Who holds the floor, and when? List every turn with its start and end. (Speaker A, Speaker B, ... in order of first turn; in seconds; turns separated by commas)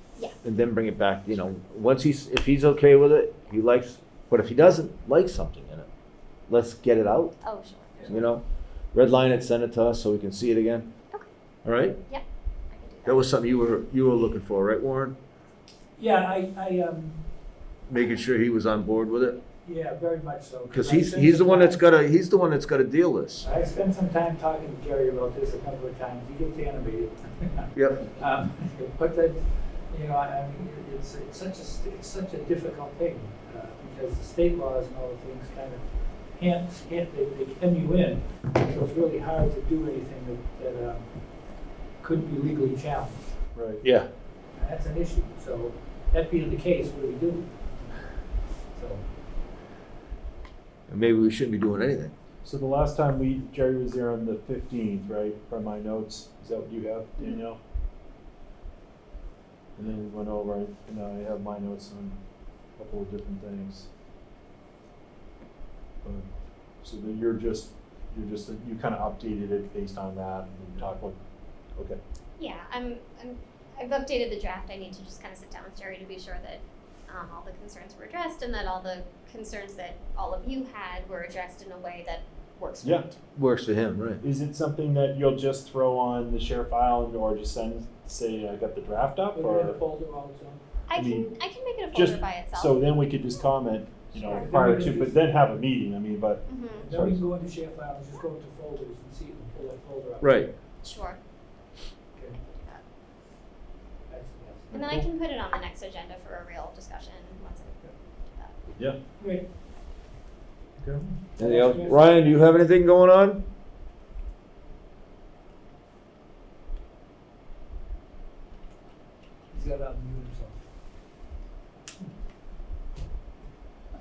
Speaker A: 0.4-5.9, Speaker A: 6.5-7.3, Speaker B: 7.4-8.1, Speaker C: 7.9-8.2, Speaker A: 8.1-8.4, Speaker A: 8.9-10.9, Speaker A: 11.6-12.0, Speaker B: 12.1-13.4, Speaker A: 13.0-15.2, Speaker C: 15.9-17.2, Speaker A: 17.9-19.4, Speaker C: 19.6-21.8, Speaker A: 20.7-23.5, Speaker C: 23.4-41.1, Speaker A: 27.7-28.1, Speaker C: 42.0-43.2, Speaker D: 43.5-43.8, Speaker A: 43.8-44.1, Speaker C: 44.5-48.2, Speaker C: 48.7-49.1, Speaker A: 50.9-52.1, Speaker D: 52.4-57.6, Speaker D: 59.8-62.1, Speaker D: 62.8-63.9, Speaker D: 66.8-71.2, Speaker B: 72.4-83.1, Speaker D: 82.8-83.1, Speaker A: 83.3-84.2, Speaker D: 84.2-89.8, Speaker C: 89.3-90.6, Speaker B: 90.9-92.9, Speaker D: 90.9-91.3, Speaker D: 91.9-97.2, Speaker C: 94.2-95.2, Speaker B: 94.3-94.7, Speaker B: 96.5-96.9, Speaker C: 96.8-100.5, Speaker A: 100.2-100.5, Speaker B: 100.8-101.2, Speaker B: 102.4-102.8, Speaker C: 104.1-104.8, Speaker D: 104.7-105.1, Speaker B: 104.7-108.5, Speaker C: 109.2-109.5, Speaker D: 110.8-111.1, Speaker A: 111.4-113.4, Speaker C: 111.4-112.2, Speaker C: 119.5-120.5